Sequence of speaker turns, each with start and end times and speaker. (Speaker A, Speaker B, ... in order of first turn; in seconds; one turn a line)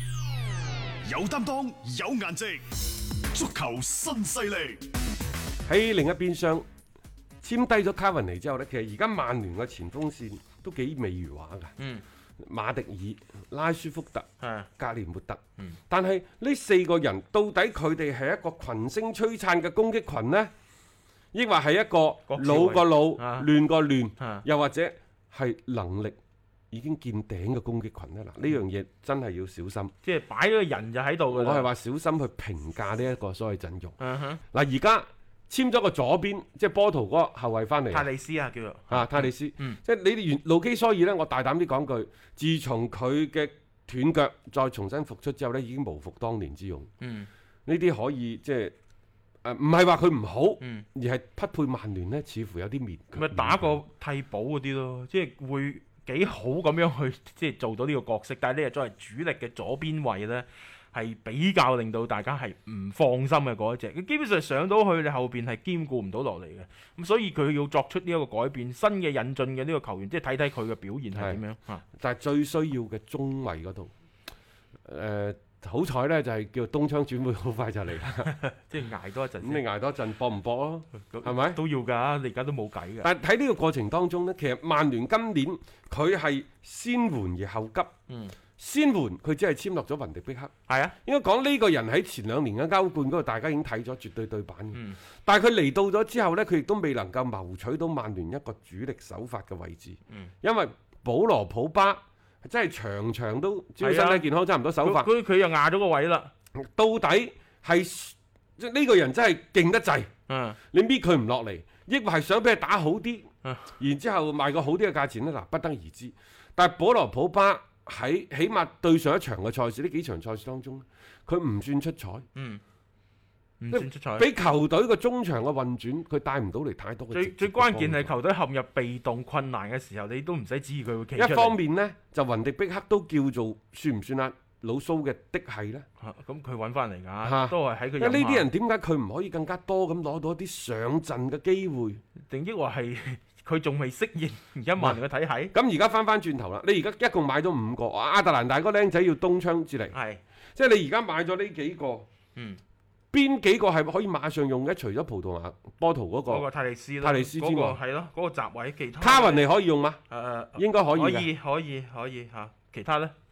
Speaker A: 1.0-2.6
Speaker A: 3.2-4.8
Speaker B: 5.7-6.6
Speaker B: 7.4-11.7
Speaker C: 11.8-12.0
Speaker B: 12.4-14.3
Speaker C: 14.4-14.7
Speaker B: 14.8-20.5
Speaker B: 21.3-26.2
Speaker C: 22.3-23.5
Speaker C: 24.2-24.4
Speaker B: 26.7-29.9
Speaker C: 30.0-31.7
Speaker B: 31.3-34.0
Speaker C: 34.0-34.4
Speaker B: 34.5-38.1
Speaker C: 37.9-39.8
Speaker B: 38.9-46.9
Speaker C: 47.0-47.3
Speaker B: 47.6-48.7
Speaker B: 49.4-53.8
Speaker C: 53.1-71.8
Speaker B: 71.2-71.4
Speaker B: 71.9-73.9
Speaker B: 74.8-78.3
Speaker C: 78.3-79.6
Speaker B: 79.4-81.6
Speaker C: 81.0-83.1
Speaker B: 83.0-87.9
Speaker C: 88.1-88.3
Speaker B: 88.6-90.5
Speaker C: 90.7-90.9
Speaker B: 91.0-105.1
Speaker C: 94.7-95.0
Speaker C: 103.8-104.2
Speaker C: 104.8-106.3
Speaker B: 106.5-110.1
Speaker C: 110.3-110.6
Speaker B: 110.7-113.3
Speaker B: 113.8-122.2
Speaker C: 122.3-122.6
Speaker C: 123.6-124.3
Speaker B: 123.7-128.1
Speaker C: 127.1-131.6
Speaker B: 131.1-135.8
Speaker C: 136.0-138.5
Speaker B: 137.2-142.0
Speaker C: 142.3-145.5
Speaker B: 145.5-149.9
Speaker C: 149.9-150.2
Speaker B: 150.5-152.1
Speaker B: 153.1-156.4
Speaker C: 156.3-159.4
Speaker B: 157.0-157.8
Speaker B: 159.0-160.0
Speaker C: 160.1-163.1
Speaker B: 160.6-161.3